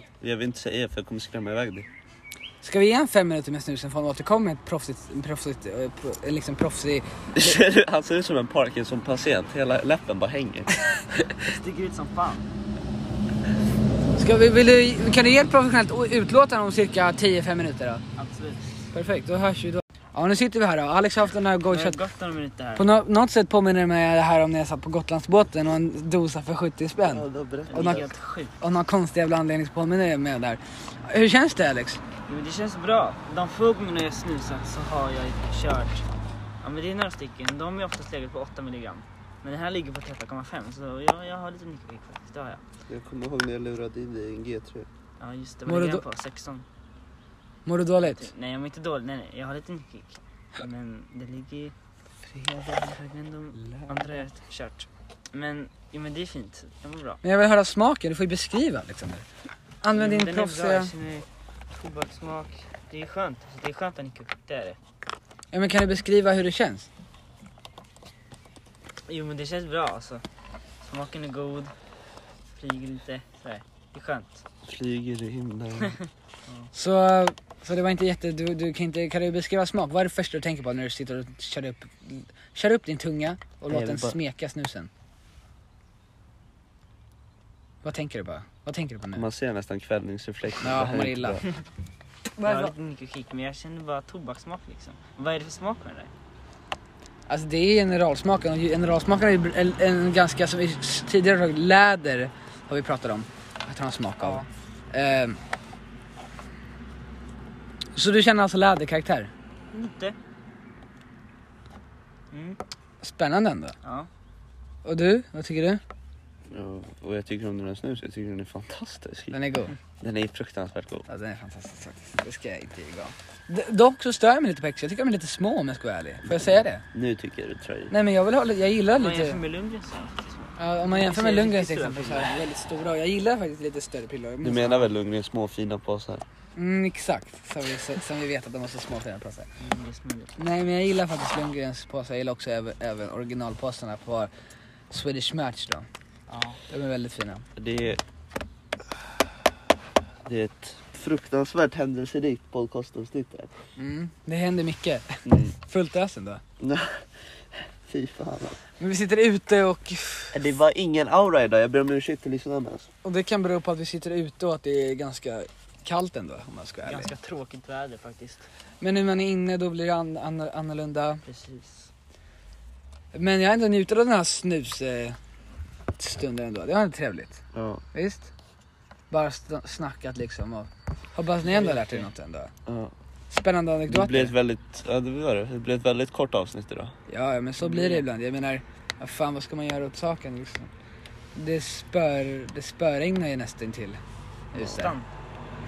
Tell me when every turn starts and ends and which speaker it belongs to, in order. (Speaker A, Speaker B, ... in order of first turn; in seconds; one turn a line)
Speaker A: 0.2-1.9
Speaker B: 2.6-7.5
Speaker A: 7.3-11.5
Speaker C: 11.4-12.4
Speaker B: 14.2-18.0
Speaker C: 18.1-18.7
Speaker B: 18.9-22.0
Speaker C: 21.7-22.9
Speaker B: 22.8-28.1
Speaker A: 27.0-28.1
Speaker C: 27.7-28.5
Speaker B: 28.6-32.0
Speaker C: 32.3-36.0
Speaker C: 36.6-42.6
Speaker A: 42.9-44.9
Speaker C: 45.2-46.6
Speaker B: 45.6-46.0
Speaker B: 47.6-48.3
Speaker C: 48.0-51.7
Speaker C: 52.6-57.2
Speaker B: 57.2-59.2
Speaker B: 59.8-60.9
Speaker C: 59.9-64.8
Speaker B: 65.5-66.9
Speaker C: 69.1-70.2
Speaker C: 70.8-71.7
Speaker C: 72.5-74.4
Speaker A: 74.6-76.0
Speaker C: 75.8-76.7
Speaker B: 76.7-84.9
Speaker A: 83.7-84.2
Speaker B: 87.8-89.2
Speaker A: 89.2-91.4
Speaker B: 90.6-91.5
Speaker B: 92.4-92.7
Speaker C: 92.4-96.1
Speaker B: 97.3-105.4
Speaker C: 104.2-104.5
Speaker B: 107.9-109.3
Speaker C: 109.7-110.2
Speaker C: 112.3-112.6
Speaker B: 113.0-113.8
Speaker C: 113.8-114.1
Speaker B: 114.8-115.8
Speaker A: 116.5-119.3
Speaker B: 119.3-119.7
Speaker A: 120.0-121.0
Speaker B: 121.1-126.8
Speaker A: 126.3-127.9
Speaker B: 127.9-129.4
Speaker C: 128.9-132.4
Speaker B: 130.6-134.9
Speaker A: 134.4-136.2
Speaker B: 136.6-139.5
Speaker C: 139.6-140.4
Speaker B: 140.4-144.3
Speaker B: 144.9-145.9
Speaker C: 146.3-146.6
Speaker B: 146.7-147.5
Speaker A: 147.6-148.0
Speaker A: 150.2-153.5
Speaker B: 153.8-156.4
Speaker A: 155.2-155.5
Speaker A: 156.6-158.6
Speaker B: 158.8-160.5
Speaker A: 160.3-162.9
Speaker B: 163.0-167.1
Speaker C: 166.8-168.4
Speaker B: 168.8-171.2
Speaker C: 171.2-171.9
Speaker B: 173.1-175.2
Speaker B: 176.0-178.3
Speaker A: 177.5-177.8
Speaker B: 179.1-182.5
Speaker C: 181.4-182.1
Speaker A: 182.7-182.9
Speaker B: 183.3-184.3
Speaker A: 183.9-186.9
Speaker B: 187.1-190.7
Speaker C: 187.6-188.1
Speaker B: 191.3-194.0
Speaker B: 194.5-194.9
Speaker C: 194.6-195.1